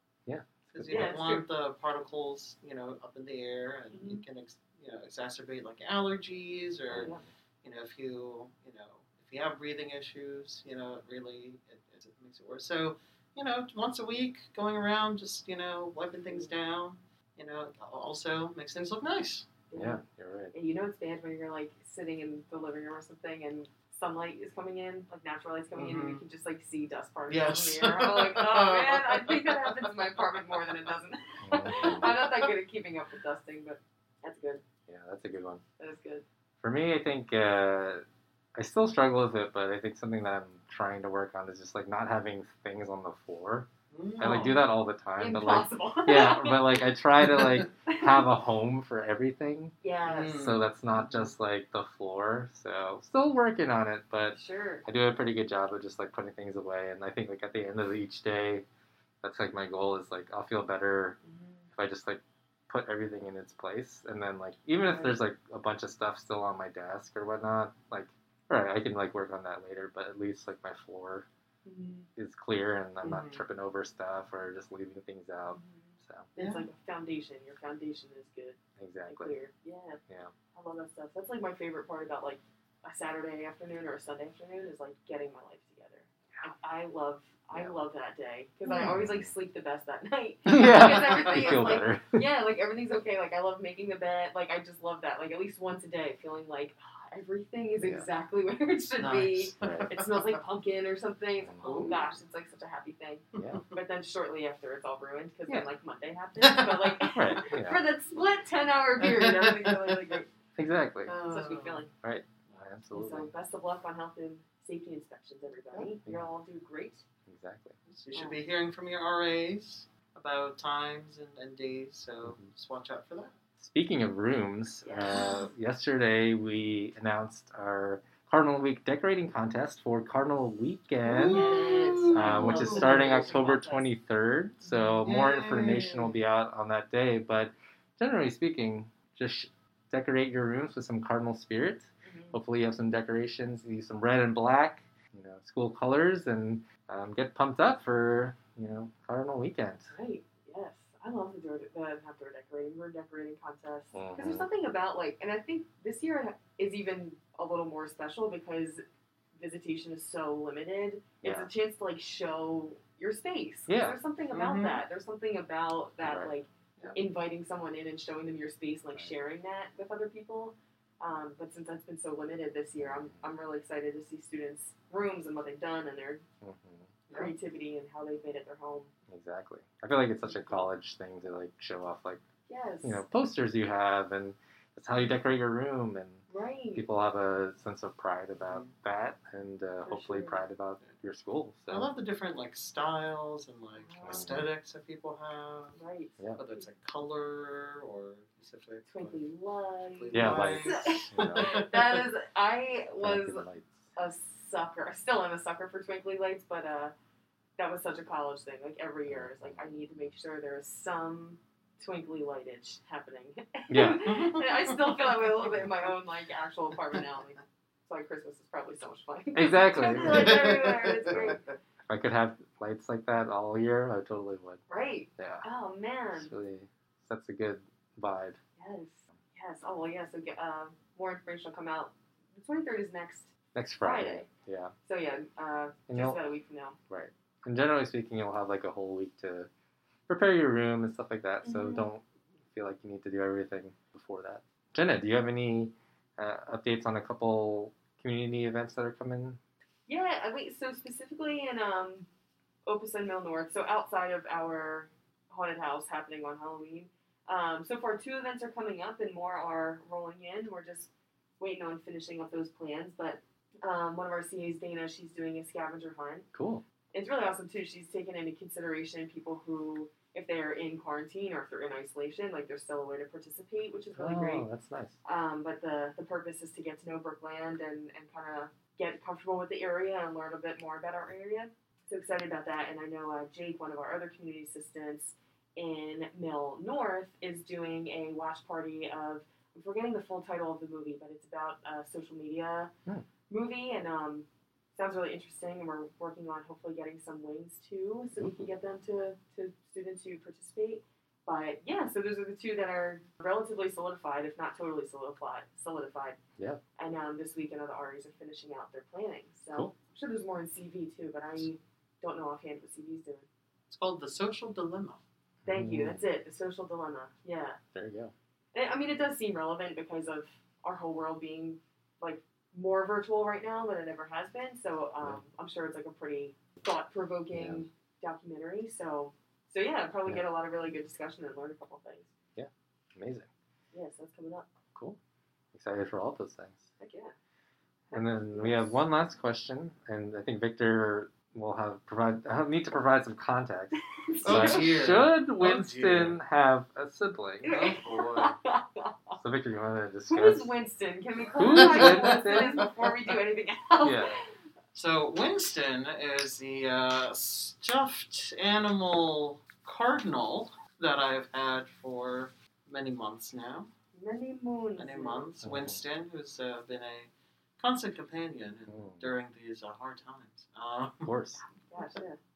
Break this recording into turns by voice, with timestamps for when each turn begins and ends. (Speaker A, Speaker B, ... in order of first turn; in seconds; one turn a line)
Speaker A: 0.3-1.1
Speaker B: 0.7-19.5
Speaker C: 0.9-1.4
Speaker C: 3.9-4.2
Speaker C: 6.9-7.2
Speaker C: 19.7-34.6
Speaker A: 19.8-20.5
Speaker B: 25.7-26.2
Speaker B: 27.3-29.8
Speaker A: 31.4-32.2
Speaker B: 31.9-32.4
Speaker A: 34.9-35.6
Speaker C: 35.8-36.2
Speaker A: 36.6-43.7
Speaker B: 43.9-44.7
Speaker A: 44.2-49.8
Speaker C: 45.2-47.0
Speaker B: 47.3-47.6
Speaker C: 47.9-48.3
Speaker C: 49.8-50.4
Speaker B: 50.0-51.3
Speaker A: 50.3-58.7
Speaker C: 54.3-54.9
Speaker A: 59.2-61.2
Speaker C: 61.2-61.7
Speaker A: 61.8-71.3
Speaker C: 64.8-65.2
Speaker C: 71.7-72.1
Speaker A: 72.2-76.3
Speaker B: 73.0-73.5
Speaker C: 75.5-80.0
Speaker B: 76.4-76.7
Speaker A: 78.8-79.4
Speaker A: 80.1-80.3
Speaker C: 80.5-110.3
Speaker A: 87.5-87.8
Speaker B: 88.7-89.0
Speaker A: 88.8-89.3
Speaker A: 90.5-92.2
Speaker B: 99.0-100.4
Speaker A: 99.6-99.9
Speaker A: 101.4-102.0
Speaker B: 101.6-102.1
Speaker A: 103.4-103.6
Speaker B: 103.4-103.7
Speaker B: 106.4-107.0
Speaker A: 107.1-107.8
Speaker B: 109.0-110.1
Speaker A: 110.6-111.2
Speaker B: 111.1-111.9
Speaker C: 111.2-111.9
Speaker A: 112.0-113.3
Speaker C: 112.9-117.0
Speaker A: 117.3-117.8
Speaker B: 117.9-123.3
Speaker C: 118.1-118.4
Speaker A: 123.6-149.9
Speaker C: 124.8-125.5
Speaker B: 131.0-133.1
Speaker C: 131.3-133.9
Speaker B: 134.7-136.2
Speaker C: 142.0-142.4
Speaker C: 149.9-158.8
Speaker A: 153.9-154.5
Speaker C: 159.4-176.2
Speaker A: 161.2-161.5
Speaker A: 163.7-164.0
Speaker B: 164.3-164.8
Speaker A: 166.0-166.3
Speaker A: 172.8-173.3
Speaker A: 176.4-176.9
Speaker B: 177.1-177.3
Speaker C: 177.1-178.9
Speaker A: 179.1-182.2
Speaker C: 180.2-180.7
Speaker C: 182.5-183.0
Speaker A: 182.8-191.9
Speaker C: 186.3-186.9
Speaker B: 188.4-188.7
Speaker C: 189.8-190.4
Speaker B: 191.7-195.8
Speaker C: 193.8-194.4
Speaker A: 194.0-194.5
Speaker C: 195.8-196.7
Speaker B: 196.4-199.2
Speaker C: 198.9-206.9
Speaker B: 199.9-202.0
Speaker A: 200.1-201.5
Speaker A: 203.0-203.9
Speaker C: 207.6-221.5
Speaker A: 209.1-209.7
Speaker A: 213.7-214.1
Speaker B: 214.0-215.6
Speaker A: 219.3-224.6
Speaker B: 220.0-221.5
Speaker C: 224.7-226.3
Speaker A: 225.2-225.4
Speaker A: 226.2-228.4
Speaker C: 228.6-234.3
Speaker A: 233.6-234.7
Speaker C: 234.8-236.8
Speaker A: 235.9-236.2
Speaker A: 236.9-239.5
Speaker A: 240.1-249.4
Speaker C: 241.4-241.9
Speaker C: 249.9-252.1
Speaker C: 252.7-266.3
Speaker A: 266.3-266.6
Speaker C: 266.9-274.5
Speaker A: 273.9-275.0
Speaker C: 275.1-292.7
Speaker C: 293.3-306.2
Speaker C: 306.8-313.3
Speaker B: 313.7-315.0
Speaker A: 315.4-316.0
Speaker C: 315.5-317.6
Speaker A: 317.7-318.1
Speaker C: 318.5-332.1
Speaker A: 327.3-327.6
Speaker A: 332.4-333.3
Speaker C: 333.7-334.5
Speaker A: 335.5-336.7
Speaker C: 336.8-337.1
Speaker C: 337.9-338.8
Speaker A: 337.9-347.5
Speaker C: 343.8-344.7
Speaker B: 344.2-346.2
Speaker B: 347.4-348.4
Speaker C: 347.4-349.2
Speaker A: 349.2-350.5
Speaker C: 350.1-354.3
Speaker A: 351.3-352.6
Speaker B: 351.4-352.7
Speaker A: 353.8-354.1
Speaker B: 354.7-363.7
Speaker C: 363.9-365.3
Speaker B: 364.8-371.1
Speaker A: 365.4-365.8
Speaker A: 368.7-369.1
Speaker A: 371.0-371.4
Speaker C: 371.6-372.2